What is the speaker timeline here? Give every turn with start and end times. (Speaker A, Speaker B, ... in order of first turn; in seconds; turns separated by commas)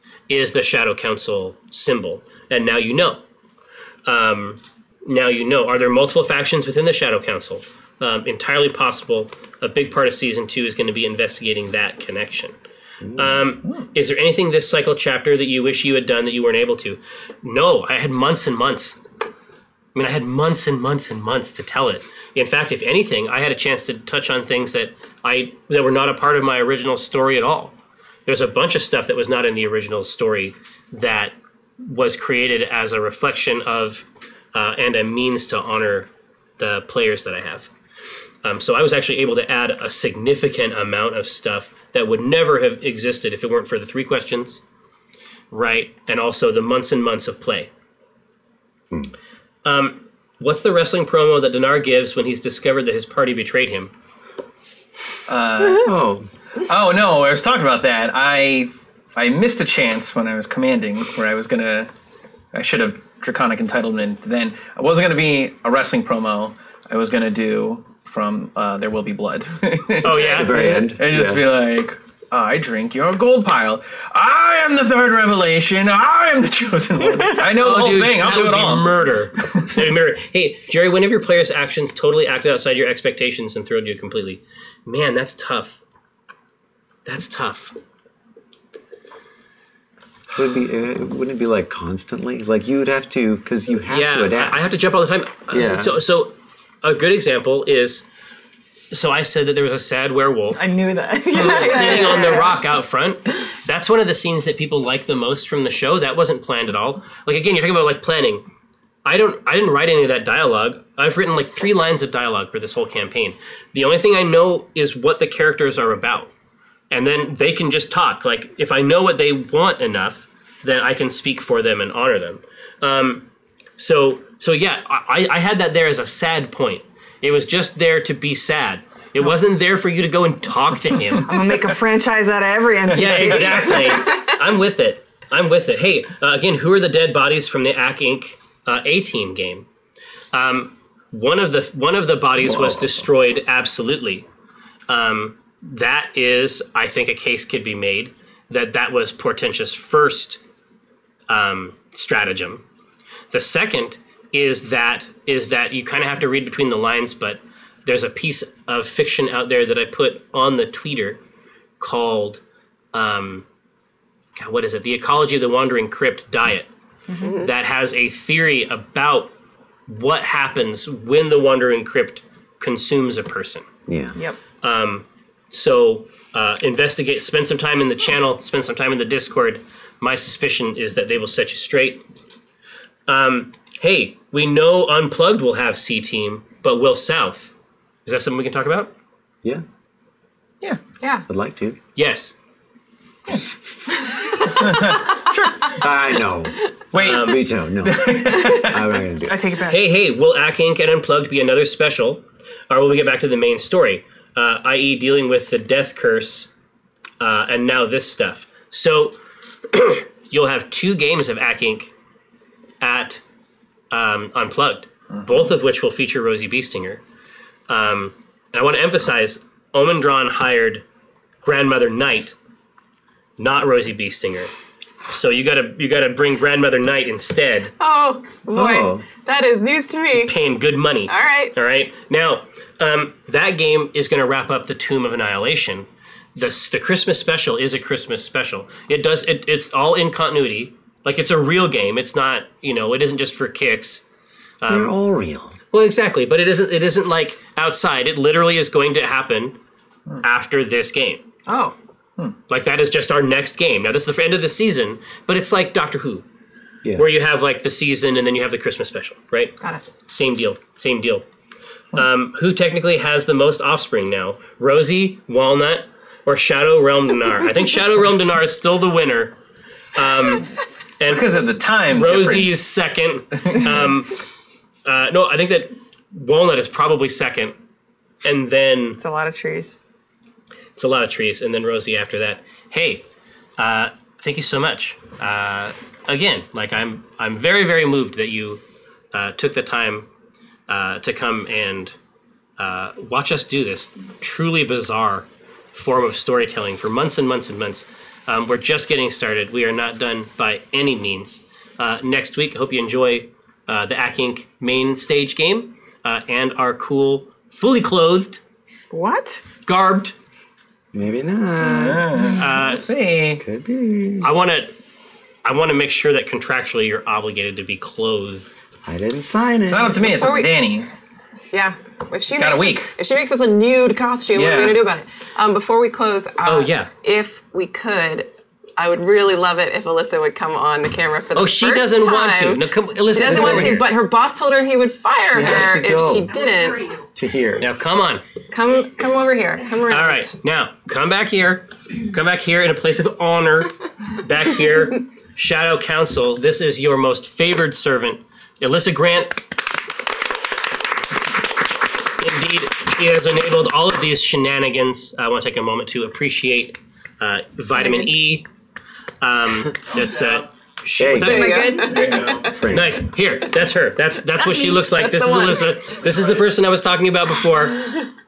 Speaker A: 0.3-3.2, Speaker A: 4.1-12.6, Speaker B: 13.0-13.4, Speaker A: 13.2-19.0, Speaker A: 19.9-27.8, Speaker A: 28.3-37.7, Speaker A: 38.4-44.6, Speaker A: 45.5-47.7, Speaker A: 49.6-53.9, Speaker C: 55.3-56.0, Speaker B: 55.7-56.3, Speaker C: 56.7-61.9, Speaker C: 62.5-79.7, Speaker A: 70.0-70.6, Speaker B: 70.2-71.4, Speaker A: 77.5-85.8, Speaker A: 87.0-87.7, Speaker B: 90.3-94.6, Speaker A: 93.9-98.0, Speaker B: 95.5-96.0, Speaker A: 98.9-100.6, Speaker D: 100.6-102.6, Speaker A: 101.3-108.4, Speaker E: 101.6-102.3, Speaker A: 109.0-116.3, Speaker A: 116.9-123.2, Speaker A: 123.8-131.3, Speaker D: 131.3-134.0, Speaker C: 132.9-133.9, Speaker A: 132.9-139.7, Speaker A: 140.3-144.2, Speaker B: 142.4-143.1, Speaker A: 144.9-150.4, Speaker A: 151.3-152.6, Speaker A: 153.3-161.2, Speaker A: 161.8-162.4, Speaker A: 162.9-163.4, Speaker A: 164.4-166.7, Speaker E: 167.2-167.5, Speaker A: 167.2-169.3, Speaker A: 169.9-173.7, Speaker B: 173.9-174.2, Speaker A: 174.6-182.0, Speaker A: 183.1-187.5, Speaker A: 188.1-188.9, Speaker B: 191.3-191.8, Speaker A: 192.0-192.3, Speaker C: 194.4-195.7, Speaker B: 195.7-199.4, Speaker C: 196.9-198.8, Speaker A: 197.0-197.4, Speaker D: 199.2-199.8, Speaker A: 199.6-206.5, Speaker A: 207.2-209.2, Speaker A: 209.7-211.9, Speaker A: 212.8-213.2, Speaker A: 213.9-217.0, Speaker A: 217.7-220.8, Speaker A: 221.4-222.3, Speaker A: 223.4-224.5, Speaker A: 225.1-227.7, Speaker E: 227.8-230.3, Speaker B: 228.6-229.0, Speaker A: 230.2-244.0, Speaker E: 231.1-231.6, Speaker A: 244.6-245.0, Speaker B: 244.7-245.6, Speaker A: 245.7-249.6, Speaker A: 250.2-251.2, Speaker A: 252.5-256.2, Speaker A: 257.0-261.2, Speaker E: 259.6-259.9, Speaker A: 261.9-269.4, Speaker A: 269.9-270.5, Speaker A: 271.0-271.3, Speaker C: 271.1-272.7, Speaker A: 271.9-274.2, Speaker A: 274.9-277.5, Speaker A: 278.2-279.0, Speaker D: 279.0-279.8, Speaker A: 280.8-283.1, Speaker A: 283.6-288.6, Speaker A: 289.1-290.1, Speaker A: 290.7-291.9, Speaker A: 292.6-308.4, Speaker D: 308.9-309.4, Speaker A: 309.7-310.1, Speaker B: 310.9-312.2, Speaker C: 311.6-313.4, Speaker A: 312.4-312.8, Speaker B: 313.4-314.3, Speaker A: 314.2-314.8, Speaker A: 315.4-318.5, Speaker B: 318.9-320.4, Speaker C: 319.7-320.9, Speaker E: 320.2-320.6, Speaker E: 321.5-337.0, Speaker C: 322.3-322.9, Speaker C: 324.3-324.8, Speaker A: 326.4-326.9, Speaker A: 331.4-334.0, Speaker B: 333.2-333.9, Speaker B: 335.3-336.3, Speaker B: 337.2-337.7, Speaker A: 337.6-338.2, Speaker E: 338.5-340.4, Speaker A: 339.9-349.4, Speaker A: 352.2-358.5, Speaker E: 357.8-358.1, Speaker A: 359.2-362.1, Speaker B: 361.0-361.4, Speaker E: 361.2-362.5, Speaker D: 361.3-362.1, Speaker C: 361.8-362.6, Speaker B: 362.5-363.0, Speaker A: 362.7-368.1, Speaker E: 364.4-365.8